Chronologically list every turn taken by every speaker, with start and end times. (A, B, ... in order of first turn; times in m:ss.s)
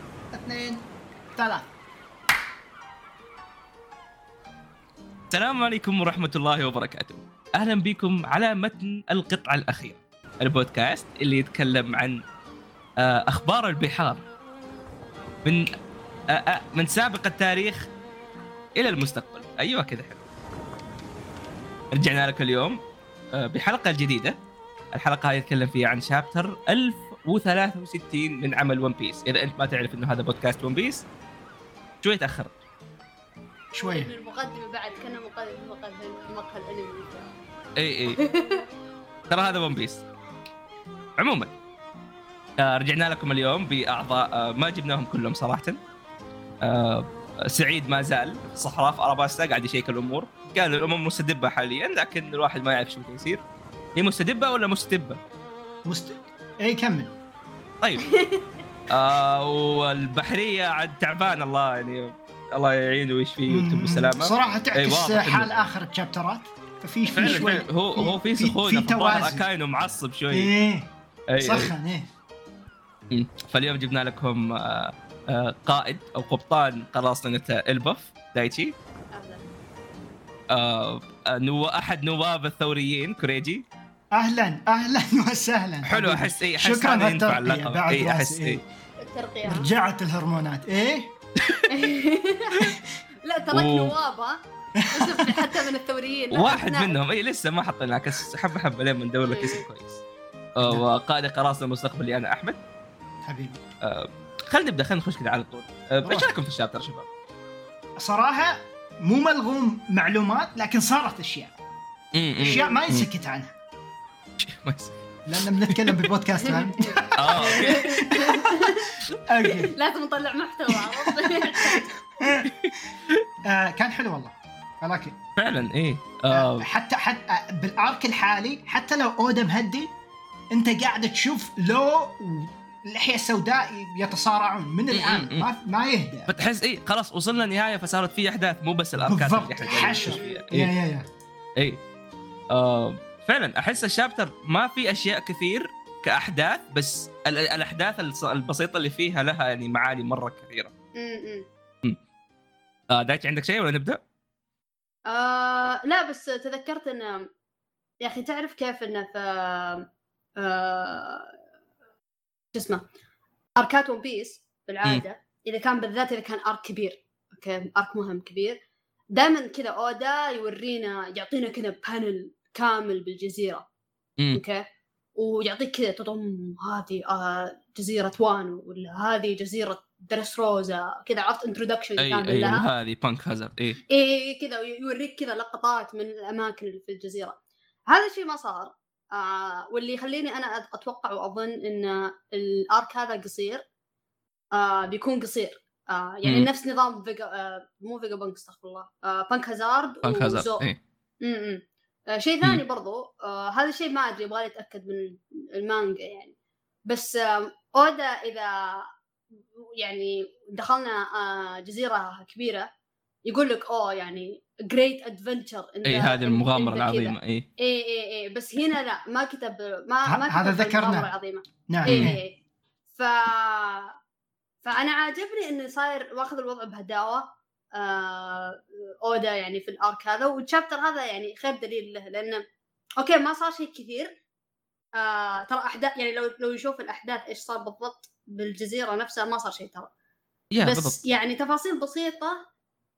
0:00.3-0:01.7 A
0:05.3-0:12.2 B
0:13.0-0:14.2 B
0:16.3-0:17.9 B
0:18.8-0:20.2 B
0:21.9-0:22.8 B
0:23.3-0:24.4 B
0:24.9-0:31.0 B
0:32.0-0:32.5 B
0:33.7-0:34.1 A
0:33.8-0:37.3 C
0:37.8-0:38.2 B
0:38.2-0:38.6 C
0:39.3-0:40.0 B
0:41.2-0:41.5 B
0:42.6-0:45.8 B
0:46.6-0:53.4 B
0:54.0-0:55.2 B
0:55.9-0:57.1 A
0:58.0-0:58.6 C
0:58.9-1:05.5 B
1:03.5-1:09.4 A
1:07.1-1:10.5 B
1:07.1-1:07.5 C
1:10.3-1:12.1 A
1:11.3-1:11.7 B
1:13.1-1:18.7 B
1:19.1-1:19.4 C
1:20.5-1:23.6 B
1:24.1-1:28.6 A
1:25.8-1:28.6 B
1:29.0-1:29.7 C
1:29.5-1:31.1 A
1:31.4-1:31.7 B
1:31.7-1:34.4 C
1:33.5-1:33.9 B
1:34.8-1:35.6 A
1:34.9-1:37.0 C
1:36.3-1:40.0 B
1:39.3-1:39.6 C
1:40.6-1:42.6 B
1:43.2-1:43.6 A
1:43.8-1:47.1 B
1:46.0-1:46.3 A
1:48.0-1:51.5 A
1:52.1-1:53.0 B
1:52.4-1:53.5 A
1:52.5-1:52.8 C
1:54.4-1:55.0 B
1:55.3-1:58.7 A
1:55.7-1:56.1 B
1:56.4-2:01.9 C
1:57.2-1:58.4 B
1:59.3-1:59.7 A
2:01.4-2:02.5 A
2:02.4-2:03.2 B
2:03.4-2:05.2 A
2:05.4-2:06.7 B
2:06.3-2:09.9 A
2:10.5-2:16.3 A
2:14.9-2:15.5 B
2:16.3-2:20.7 B
2:19.0-2:21.0 A
2:19.7-2:20.4 C
2:22.5-2:30.7 B
2:31.0-2:31.4 C
2:32.9-2:34.0 B
2:35.1-2:37.3 C
2:38.0-2:39.9 C
2:40.4-2:41.3 C
2:42.5-2:42.8 C
2:43.6-2:48.6 C
2:49.1-2:53.6 C
2:54.3-2:54.6 C
2:55.2-3:02.6 C
3:02.0-3:03.8 B
3:03.9-3:07.4 C
3:07.9-3:13.6 C
3:14.5-3:20.6 C
3:20.0-3:20.8 B
3:21.2-3:26.3 C
3:26.9-3:28.9 C
3:29.6-3:32.7 C
3:33.2-3:42.4 C
3:35.8-3:37.5 B
3:40.0-3:41.1 A
3:41.7-3:42.2 A
3:41.9-3:42.1 B
3:43.0-3:43.9 C
3:44.6-3:52.4 C
3:53.0-3:54.1 C
3:55.0-3:59.9 C
4:00.5-4:01.0 B
4:00.6-4:02.4 C